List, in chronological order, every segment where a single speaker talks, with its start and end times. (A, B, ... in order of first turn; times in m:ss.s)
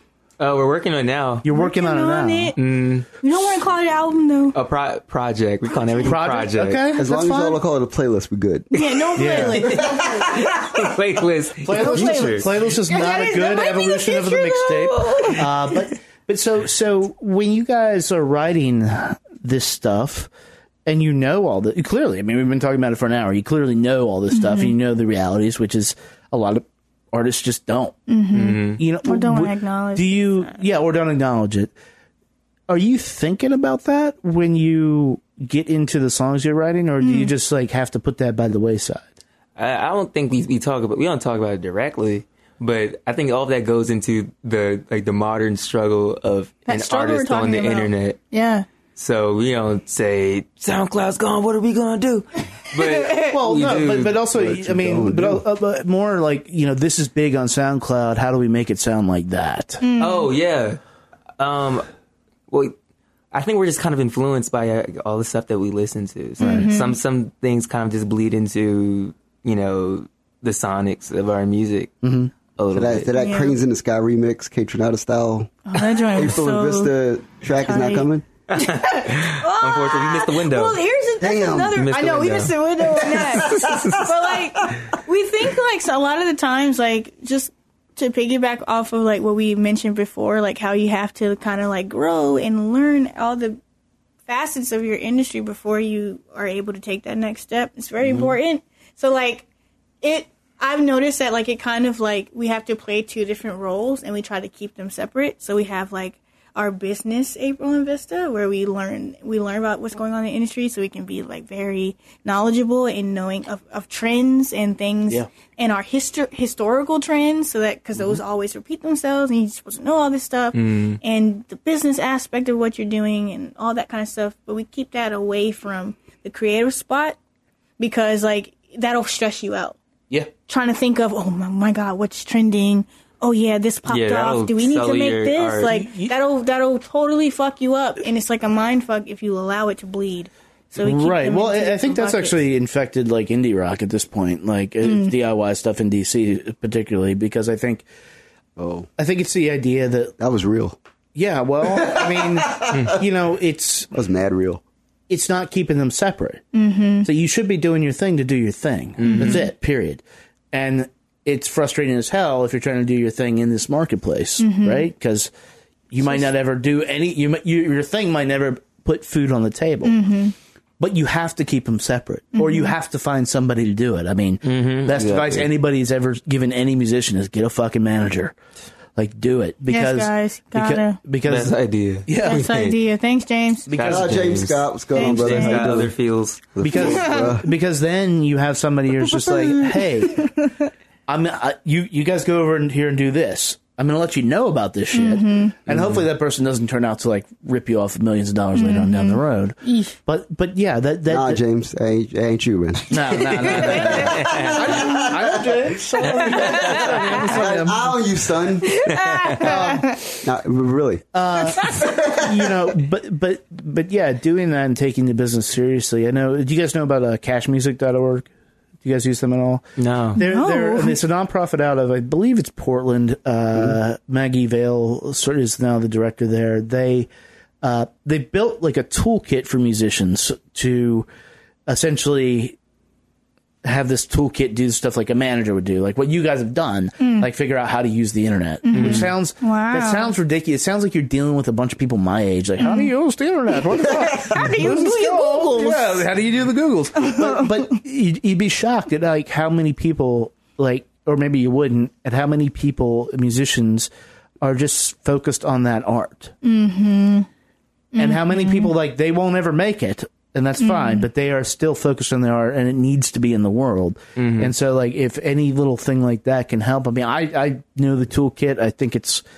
0:00.4-0:01.4 A
0:01.4-0:02.5 B
0:01.5-0:02.6 C
0:02.6-0:03.1 A
0:03.2-0:04.6 C
0:04.5-0:06.8 A
0:06.0-0:07.6 B
0:07.0-0:10.5 D
0:08.7-0:10.3 C
0:09.2-0:09.8 B
0:09.4-0:12.5 A
0:11.6-0:20.3 B
0:11.7-0:15.8 C
0:20.9-0:28.0 B
0:24.3-0:24.8 C
0:28.1-0:30.6 C
0:28.3-0:28.8 A
0:28.8-0:31.7 B
0:32.7-0:39.0 B
0:37.0-0:37.3 C
0:39.6-0:48.2 A
0:46.7-0:48.7 C
0:49.0-0:54.2 A
0:52.8-0:53.1 C
0:53.3-0:59.8 B
0:54.3-0:55.4 D
0:59.8-1:00.3 C
1:00.0-1:00.8 A
1:01.4-1:01.9 A
1:02.5-1:02.8 A
1:03.3-1:12.0 A
1:06.4-1:07.0 C
1:06.4-1:06.7 B
1:12.0-1:12.3 B
1:12.6-1:13.1 A
1:12.7-1:18.3 D
1:13.2-1:13.6 C
1:15.7-1:16.9 C
1:17.7-1:33.6 C
1:18.5-1:20.8 A
1:21.2-1:21.8 D
1:21.7-1:24.1 A
1:23.0-1:23.9 D
1:34.3-1:39.5 C
1:38.0-1:38.4 B
1:40.0-2:07.2 C
2:00.5-2:01.0 A
2:07.8-2:09.8 C
2:10.5-2:22.4 C
2:13.9-2:15.7 A
2:15.6-2:16.1 B
2:20.8-2:27.8 B
2:24.8-2:25.1 C
2:28.6-2:28.9 D
2:29.0-2:30.2 B
2:30.2-2:30.8 D
2:31.2-2:33.9 B
2:31.6-2:32.8 D
2:33.9-2:34.6 D
2:35.1-2:36.4 B
2:36.5-2:37.1 C
2:37.0-2:45.3 B
2:39.0-2:39.4 A
2:39.1-2:39.5 C
2:44.4-2:44.9 C
2:45.9-2:49.9 B
2:46.0-2:46.3 C
2:49.8-2:50.4 C
2:50.8-2:58.4 B
2:52.4-2:52.7 C
2:54.4-2:55.5 A
2:59.0-3:01.6 B
2:59.7-3:01.0 C
3:01.3-3:02.8 A
3:02.1-3:02.7 B
3:02.2-3:03.7 C
3:03.7-3:04.5 B
3:03.7-3:06.5 A
3:03.8-3:05.9 D
3:05.0-3:05.7 C
3:06.5-3:07.4 D
3:06.6-3:10.4 B
3:06.8-3:07.4 C
3:09.0-3:10.6 C
3:11.1-3:21.4 B
3:14.9-3:15.6 C
3:15.7-3:16.0 D
3:18.6-3:20.0 C
3:21.1-3:25.8 D
3:22.9-3:27.9 B
3:23.6-3:24.2 C
3:24.0-3:24.6 A
3:24.7-3:25.1 C
3:26.1-3:26.9 A
3:26.1-3:27.2 C
3:26.5-3:28.7 D
3:28.6-3:30.1 C
3:28.8-3:29.5 A
3:29.4-3:29.9 B
3:30.2-3:31.1 D
3:31.1-3:38.3 B
3:31.6-3:31.9 C
3:31.7-3:32.5 D
3:38.8-3:39.6 B
3:39.8-3:40.2 A
3:40.2-3:47.1 B
3:40.2-3:41.0 C
3:47.6-3:51.1 B
3:51.7-3:52.6 B
3:53.6-4:13.9 B
3:57.0-3:57.3 C
3:58.6-4:00.1 C
3:58.7-3:59.1 A
4:02.6-4:02.9 C
4:03.8-4:06.0 C
4:07.0-4:07.7 C
4:14.4-4:16.3 B
4:16.4-4:17.3 C
4:17.9-4:18.7 C
4:18.0-4:29.2 B
4:20.6-4:21.1 C
4:24.2-4:24.5 A